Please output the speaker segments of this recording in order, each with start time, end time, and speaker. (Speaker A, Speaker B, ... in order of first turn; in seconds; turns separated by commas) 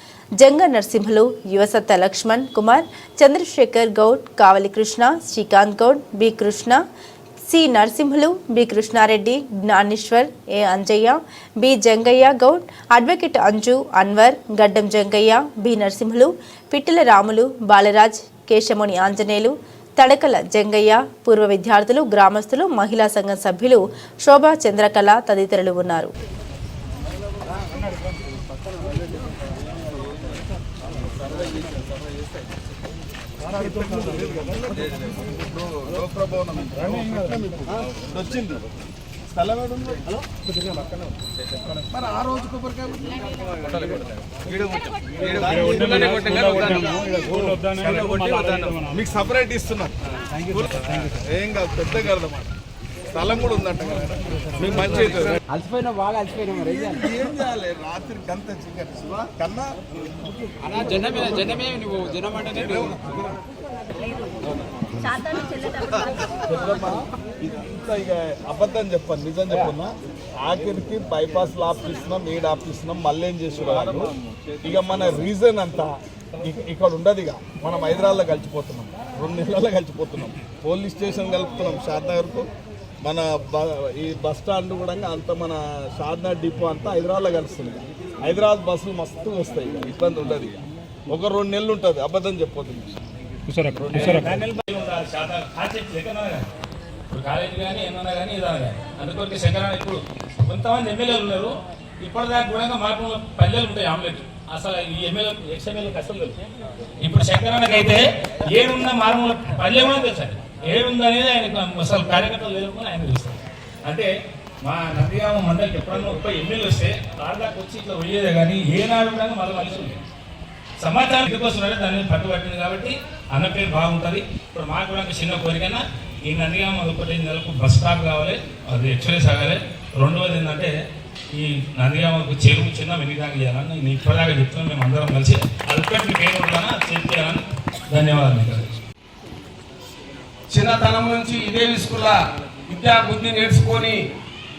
Speaker A: 0.4-6.8, Speaker A: 7.5-26.1, Speaker B: 33.5-38.6, Speaker B: 39.3-40.0, Speaker B: 41.8-44.0, Speaker B: 45.2-49.9, Speaker C: 45.7-46.8, Speaker B: 50.5-52.5, Speaker B: 53.1-55.4, Speaker C: 55.5-57.2, Speaker B: 56.7-59.8, Speaker C: 60.6-63.0, Speaker B: 66.3-74.1, Speaker B: 74.6-75.9, Speaker B: 76.4-82.4, Speaker B: 83.0-90.5, Speaker B: 91.1-93.0, Speaker D: 93.9-96.5, Speaker D: 97.1-106.3, Speaker D: 107.0-114.1, Speaker D: 114.6-120.0, Speaker D: 120.8-130.7, Speaker D: 131.3-138.7, Speaker E: 140.5-142.2, Speaker E: 142.7-144.0